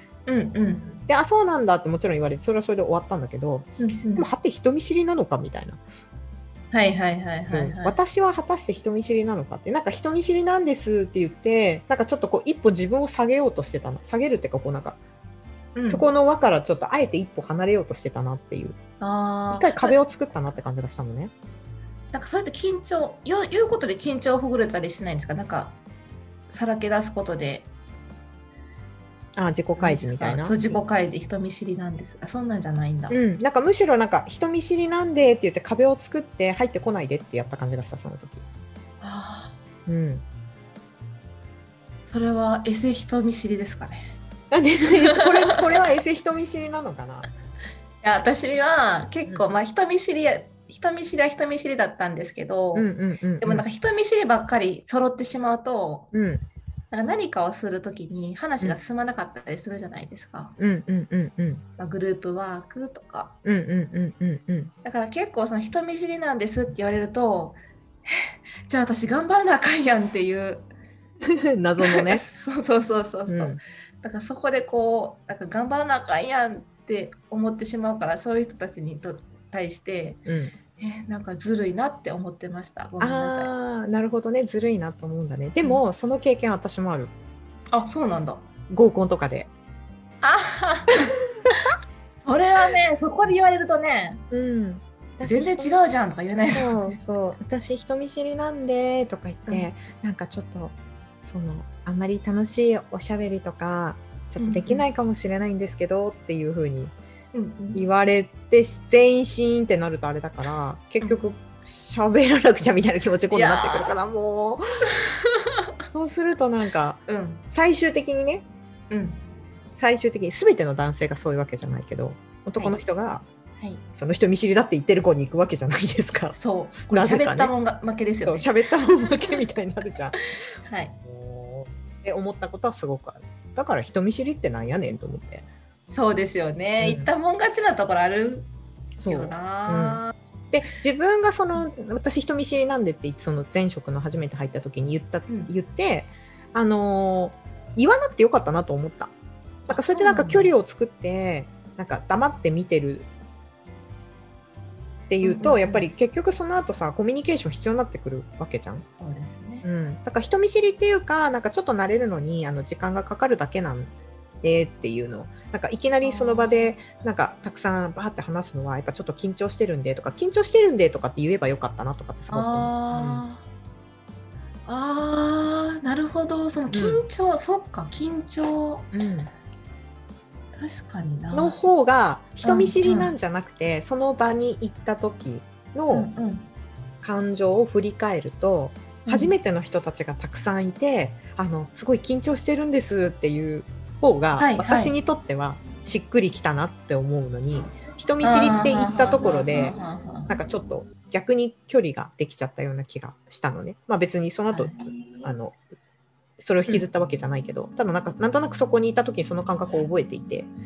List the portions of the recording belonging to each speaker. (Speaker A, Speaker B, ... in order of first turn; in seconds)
Speaker A: 0.3-1.0, 3.8-4.3, 6.7-8.0, 15.8-16.1, 19.0-20.0, 22.1-25.8, 26.5-27.7, 29.8-33.2, 39.0-39.5, 42.1-44.2, 44.9-45.6, 48.0-56.1, 56.9-60.5, 61.8-63.4, 64.8-70.7, 71.8-80.2, 80.8-83.5, 87.7-88.5, 90.2-91.1, 92.2-94.2, 95.2-97.0, 104.4-104.8, 107.3-107.8, 111.0-111.3, 113.3-114.0, 115.0-115.7, 117.1-117.4, 118.9-119.2, 126.4-128.5, 129.1-129.3, 130.6-131.0, 135.9-138.5, 139.1-140.1, 149.7-150.5, 155.2-155.9, 159.0-159.7, 166.0-166.8, 172.3-173.4, 174.7-178.9, 180.5-181.6, 182.4-183.2, 185.9-186.5, 189.1-189.3, 194.4-194.9, 198.2-200.4, 204.5-205.2
Speaker B: 1.1-5.8, 7.5-15.0, 15.9-18.8, 19.5-21.3, 29.4-30.8, 33.1-38.4, 39.9-40.2, 44.5-47.3, 52.8-53.6, 56.1-56.5, 60.6-61.6, 63.4-64.7, 71.3-72.2, 73.3-73.6, 80.3-80.5, 83.0-87.1, 88.7-89.5, 94.3-95.7, 96.5-106.9, 107.8-114.6, 115.9-118.5, 119.8-123.2, 123.9-126.4, 126.9-127.5, 128.3-130.2, 131.0-135.5, 136.8-137.1, 139.0-140.0, 140.5-149.1, 149.7-153.1, 155.1-158.8, 159.6-173.2, 176.7-177.0, 178.9-179.3, 181.3-186.1, 187.0-199.8, 200.3-205.6, 206.4-210.5